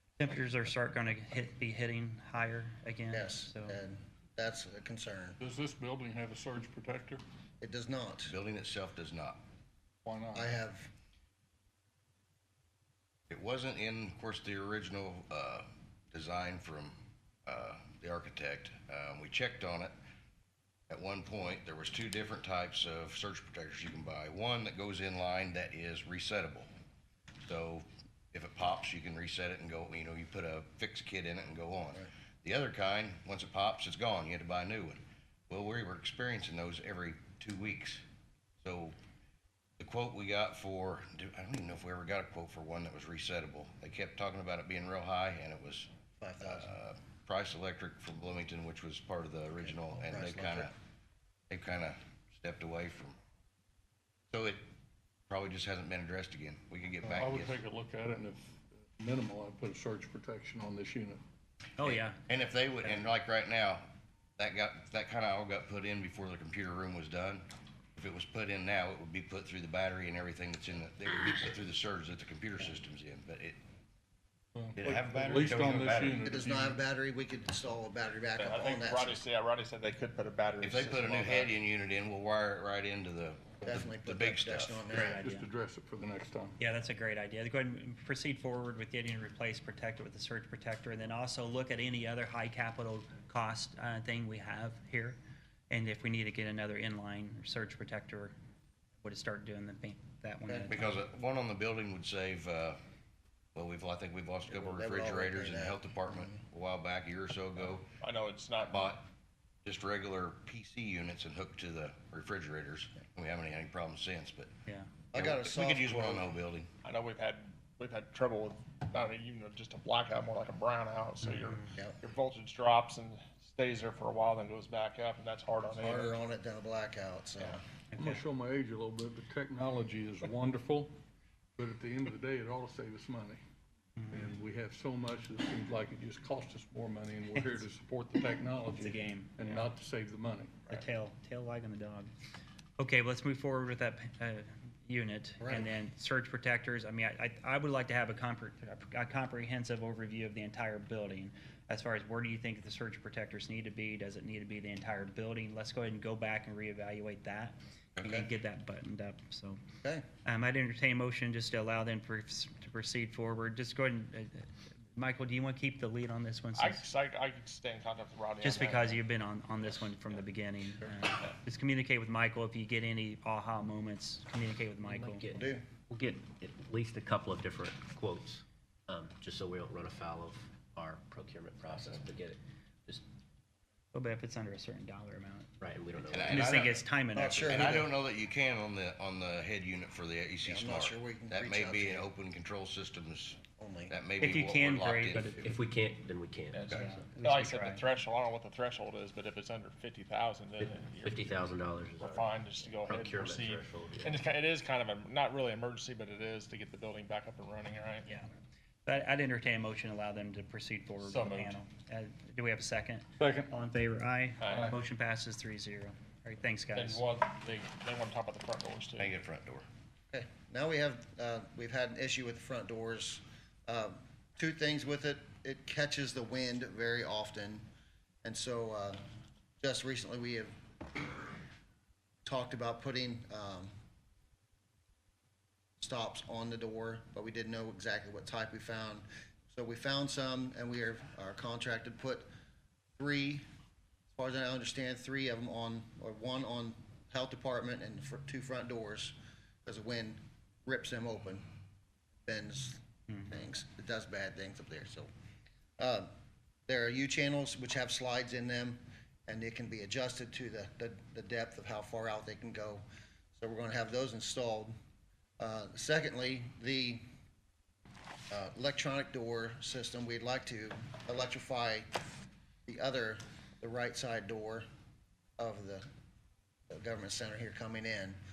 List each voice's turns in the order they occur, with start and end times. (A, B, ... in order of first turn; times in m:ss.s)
0:00.2-0:03.8 A
0:03.1-0:05.4 B
0:05.4-0:07.2 C
0:07.6-0:08.4 B
0:08.3-0:09.4 D
0:10.0-0:10.5 C
0:10.3-0:10.9 B
0:13.3-0:19.9 D
0:20.9-0:26.7 D
0:27.4-0:38.0 D
0:38.6-0:38.9 D
0:39.8-0:45.9 D
0:46.2-0:46.8 B
0:46.4-0:50.7 D
0:49.6-0:50.7 B
0:51.5-0:53.2 D
0:54.3-0:54.6 D
0:55.3-0:57.6 D
0:57.0-1:01.2 C
1:01.8-1:02.2 A
1:01.8-1:03.9 D
1:04.4-1:13.6 D
1:14.5-1:16.8 C
1:14.8-1:16.2 D
1:16.1-1:19.2 B
1:18.4-1:21.5 E
1:20.6-1:24.9 D
1:23.6-1:23.9 C
1:23.6-1:25.2 B
1:24.9-1:25.5 A
1:25.0-1:26.6 C
1:26.6-1:35.2 A
1:35.7-1:38.3 A
1:39.0-1:40.9 A
1:40.5-1:40.7 B
1:40.7-1:42.8 D
1:43.5-1:47.9 D
1:44.5-1:46.4 B
1:48.0-1:49.0 E
1:48.7-1:49.0 D
1:49.6-1:54.5 D
1:55.1-1:56.3 B
1:55.1-1:56.7 D
1:56.8-2:06.2 E
2:01.2-2:01.6 A
2:05.8-2:07.6 B
2:07.9-2:08.2 A
2:08.0-2:10.9 C
2:11.6-2:13.4 C
2:14.0-2:14.3 A
2:14.1-2:20.8 C
2:17.4-2:17.6 A
2:18.8-2:19.6 A
2:20.7-2:22.1 A
2:22.8-2:39.6 A
2:25.4-2:25.7 B
2:40.2-2:46.8 A
2:46.6-2:49.0 E
2:48.4-2:55.2 A
2:54.8-3:03.0 F
2:55.3-2:55.6 B
3:03.9-3:05.5 A
3:05.6-3:06.7 F
3:06.1-3:06.8 D
3:06.3-3:07.7 A
3:07.1-3:07.9 B
3:07.4-3:15.6 D
3:10.4-3:12.1 B
3:13.6-3:13.9 B
3:14.2-3:15.5 A
3:15.4-3:17.1 F
3:16.5-3:28.1 E
3:16.7-3:17.8 A
3:20.6-3:22.2 F
3:22.8-3:24.2 F
3:28.0-3:28.3 A
3:28.8-3:37.0 A
3:31.0-3:31.6 E
3:33.2-3:33.5 C
3:34.4-3:34.7 E
3:34.5-3:34.8 C
3:36.7-3:39.1 E
3:39.0-3:39.7 D
3:40.1-3:47.6 B
3:48.2-3:49.0 B
3:49.6-3:50.5 B
3:52.2-3:53.7 B
3:55.8-4:02.3 B
4:03.0-4:03.4 B
4:04.1-4:11.4 B
4:12.2-4:15.1 B
4:15.8-4:16.1 B
4:16.7-4:24.7 B
4:25.4-4:27.0 B
4:28.3-4:31.9 B
4:32.7-4:34.6 B
4:35.4-4:35.9 B
4:36.7-4:38.2 B